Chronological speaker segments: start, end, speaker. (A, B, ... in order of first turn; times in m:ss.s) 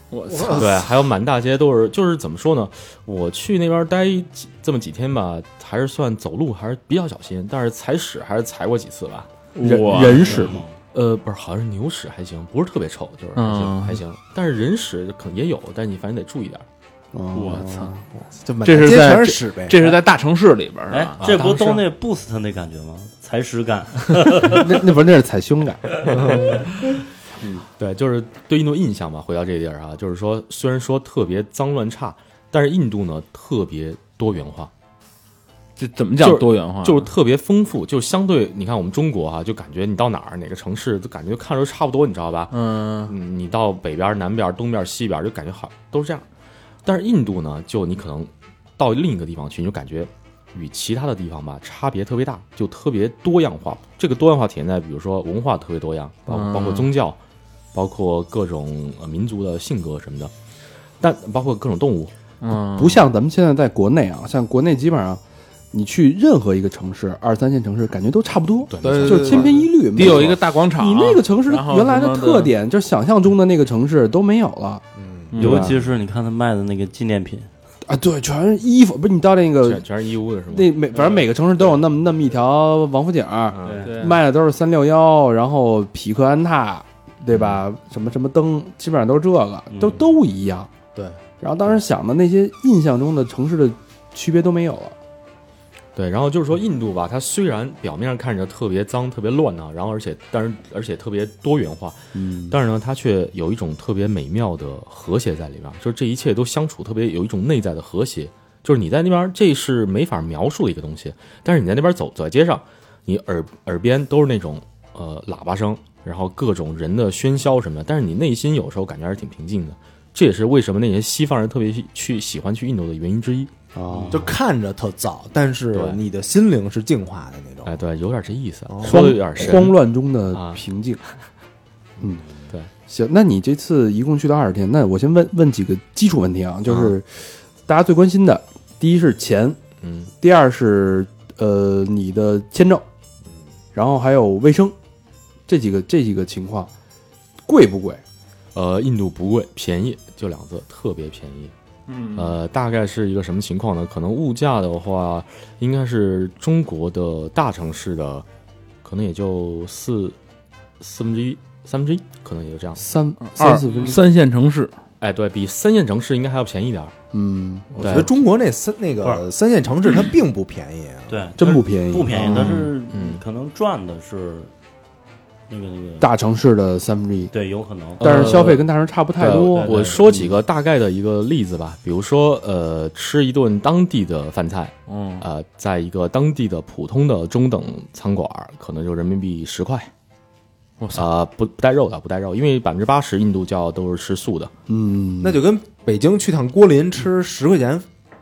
0:00.1-0:00.8 A
0:00.3-0:00.9 B
0:00.6-0:09.3 C
0:09.6-0:10.5 A
0:09.6-0:10.6 D
0:10.9-0:16.7 C
0:13.4-0:14.0 A
0:17.1-0:18.0 D
0:17.3-0:17.9 A
0:18.3-0:19.9 B
0:18.6-0:21.3 A
0:20.9-0:24.8 E
0:21.2-0:21.9 C
0:24.4-0:25.9 D
0:26.0-0:26.6 E
0:26.1-0:26.5 B
0:27.8-0:34.7 C
0:35.8-0:37.1 A
0:36.2-0:42.5 C
0:42.5-0:43.1 A
0:43.1-0:46.2 C
0:46.8-0:57.2 C
0:56.3-0:56.9 A
0:57.7-1:00.3 C
1:01.0-1:02.1 C
1:02.4-1:03.0 A
1:02.7-1:05.2 D
1:05.7-1:14.8 D
1:08.7-1:10.4 C
1:08.8-1:09.6 B
1:09.9-1:12.5 A
1:15.0-1:15.4 B
1:15.3-1:15.7 A
1:15.4-1:15.8 D
1:15.4-1:17.5 E
1:17.9-1:19.8 D
1:19.6-1:20.7 C
1:20.5-1:30.7 D
1:23.5-1:23.9 C
1:23.6-1:24.0 E
1:23.8-1:24.2 A
1:27.3-1:27.6 C
1:29.7-1:30.1 E
1:31.4-1:35.0 D
1:36.0-1:42.0 C
1:42.1-1:42.6 D
1:42.5-2:04.1 C
2:03.7-2:04.3 D
2:04.1-2:07.8 B
2:05.7-2:06.0 C
2:07.6-2:10.6 C
2:08.7-2:09.2 B
2:08.8-2:11.0 D
2:12.0-2:12.2 D
2:12.0-2:12.7 C
2:12.9-2:19.6 D
2:16.7-2:16.9 C
2:19.8-2:20.1 C
2:20.2-2:22.8 D
2:23.7-2:24.8 D
2:25.5-2:26.7 D
2:27.5-2:28.0 D
2:28.6-2:31.5 C
2:31.9-2:32.3 A
2:32.2-2:38.2 C
2:38.8-2:40.2 C
2:40.8-2:42.8 C
2:42.8-2:44.0 D
2:43.2-2:44.7 A
2:45.0-2:46.9 C
2:47.1-2:48.0 D
2:47.8-2:48.1 C
2:47.8-2:51.2 B
2:49.0-2:49.3 E
2:51.1-2:54.5 E
2:51.4-2:52.6 D
2:52.3-2:53.2 C
2:52.4-2:52.6 A
2:55.5-2:56.1 E
2:56.0-2:57.3 D
2:57.3-2:58.5 E
2:58.0-2:58.7 A
2:58.0-3:00.3 D
2:59.2-2:59.7 A
2:59.4-3:00.2 E
2:59.6-3:09.9 C
3:04.9-3:05.3 A
3:10.8-3:11.1 A
3:10.9-3:14.5 C
3:14.7-3:15.4 D
3:15.2-3:17.9 B